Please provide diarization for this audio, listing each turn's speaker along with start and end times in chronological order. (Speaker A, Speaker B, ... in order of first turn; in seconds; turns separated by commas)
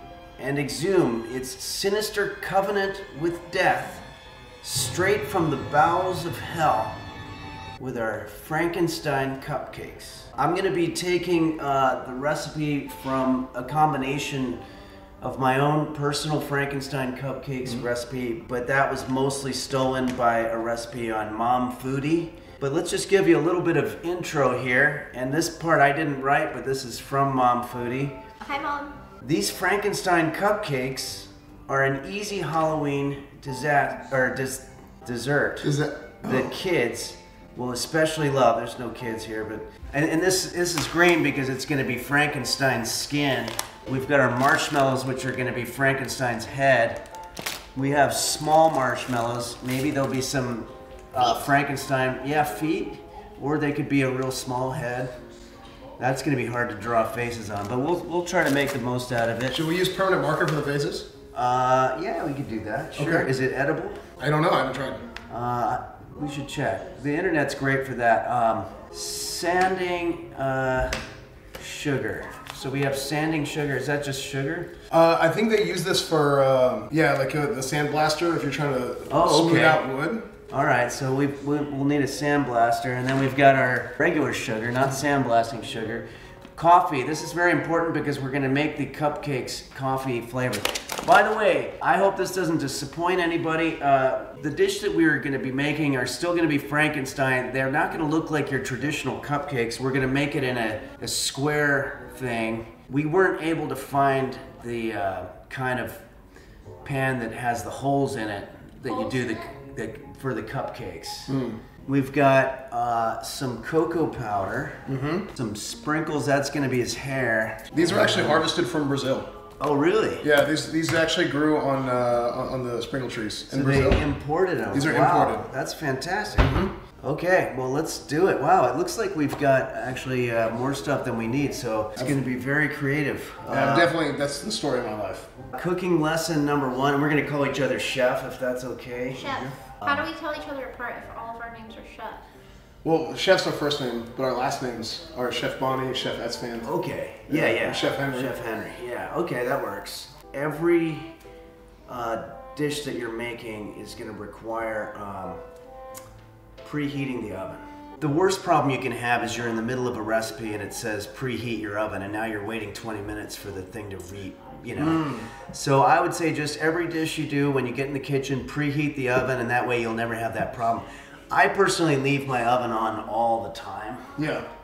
Speaker A: 0.4-4.0, Speaker A: 4.6-7.0, Speaker A: 7.8-14.6, Speaker A: 15.2-28.2, Speaker B: 28.4-28.9, Speaker A: 29.2-35.7, Speaker C: 35.6-36.5, Speaker A: 36.2-47.0, Speaker A: 47.7-55.1, Speaker A: 56.0-59.6, Speaker C: 59.5-61.1, Speaker A: 61.3-64.0, Speaker C: 63.0-63.3, Speaker C: 64.2-65.0, Speaker A: 65.3-71.0, Speaker A: 71.6-74.7, Speaker C: 74.9-80.3, Speaker A: 79.1-79.8, Speaker A: 80.5-106.0, Speaker A: 106.8-114.8, Speaker B: 108.9-109.5, Speaker C: 111.3-111.6, Speaker C: 114.9-115.2, Speaker A: 115.3-118.4, Speaker C: 117.7-119.3, Speaker A: 119.6-120.3, Speaker C: 120.2-124.0, Speaker A: 123.5-133.9, Speaker C: 124.7-125.5, Speaker C: 126.4-126.7, Speaker C: 133.5-135.3, Speaker A: 135.5-139.3, Speaker B: 139.2-142.2, Speaker C: 139.2-139.5, Speaker C: 142.8-146.7, Speaker A: 146.6-151.1, Speaker C: 147.3-148.3, Speaker A: 151.9-155.4, Speaker A: 156.6-174.0, Speaker C: 164.8-165.3, Speaker C: 174.2-174.4